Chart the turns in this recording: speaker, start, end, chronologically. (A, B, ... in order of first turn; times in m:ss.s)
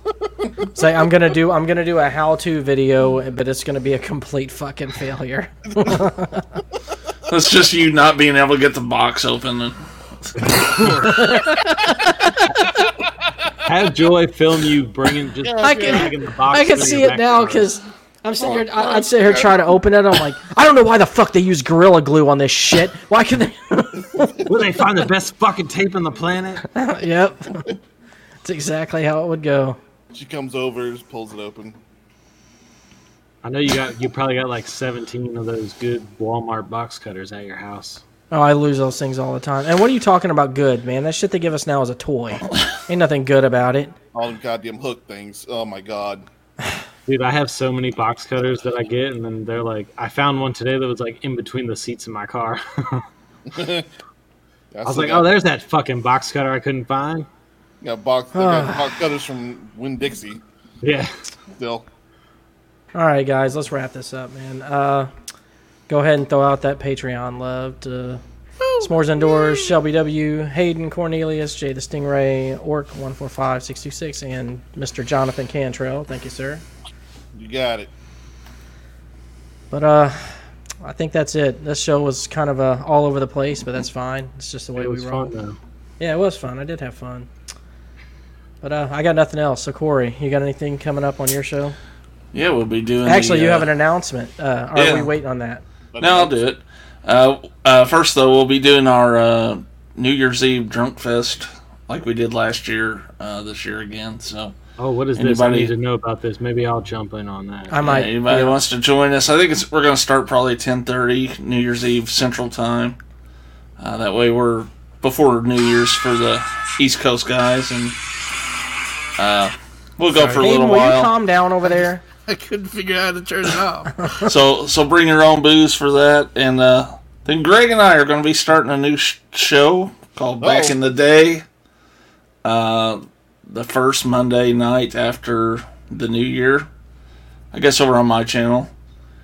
0:00.7-0:06.4 A
0:07.3-0:09.8 B
0:10.4-0:11.1 C
0:11.0-0:12.8 A
0:13.6-0:17.7 C
0:15.4-0:16.2 D
0:15.6-0:24.3 A
0:18.4-0:19.7 D
0:24.4-0:26.6 C
0:26.7-0:27.7 A
0:28.4-0:29.8 A
0:30.1-0:31.8 D
0:33.4-0:38.0 C
0:38.3-0:43.9 A
0:44.1-0:46.2 D
0:47.1-0:53.0 C
0:53.5-0:53.9 D
0:54.7-0:55.3 D
0:54.8-0:57.3 C
0:57.8-1:00.4 D
0:58.3-0:58.8 A
1:00.8-1:01.1 C
1:01.6-1:01.8 D
1:02.9-1:05.1 A
1:05.9-1:08.2 A
1:08.6-1:09.8 E
1:08.8-1:16.6 A
1:17.3-1:17.9 D
1:19.7-1:25.3 A
1:24.8-1:25.6 C
1:26.0-1:27.3 A
1:28.6-1:31.8 A
1:32.3-1:33.7 B
1:33.0-1:35.6 A
1:34.7-1:35.1 B
1:35.9-1:36.4 D
1:36.0-1:44.5 B
1:44.8-1:47.8 C
1:45.2-1:45.7 B
1:47.7-1:48.6 A
1:47.8-1:53.0 B
1:53.8-1:58.0 B
1:59.2-2:01.1 B
2:00.1-2:00.4 E
2:00.4-2:02.0 A
2:01.6-2:03.9 E
2:04.2-2:11.4 B
2:10.4-2:10.8 D
2:12.4-2:16.7 B
2:17.5-2:18.7 B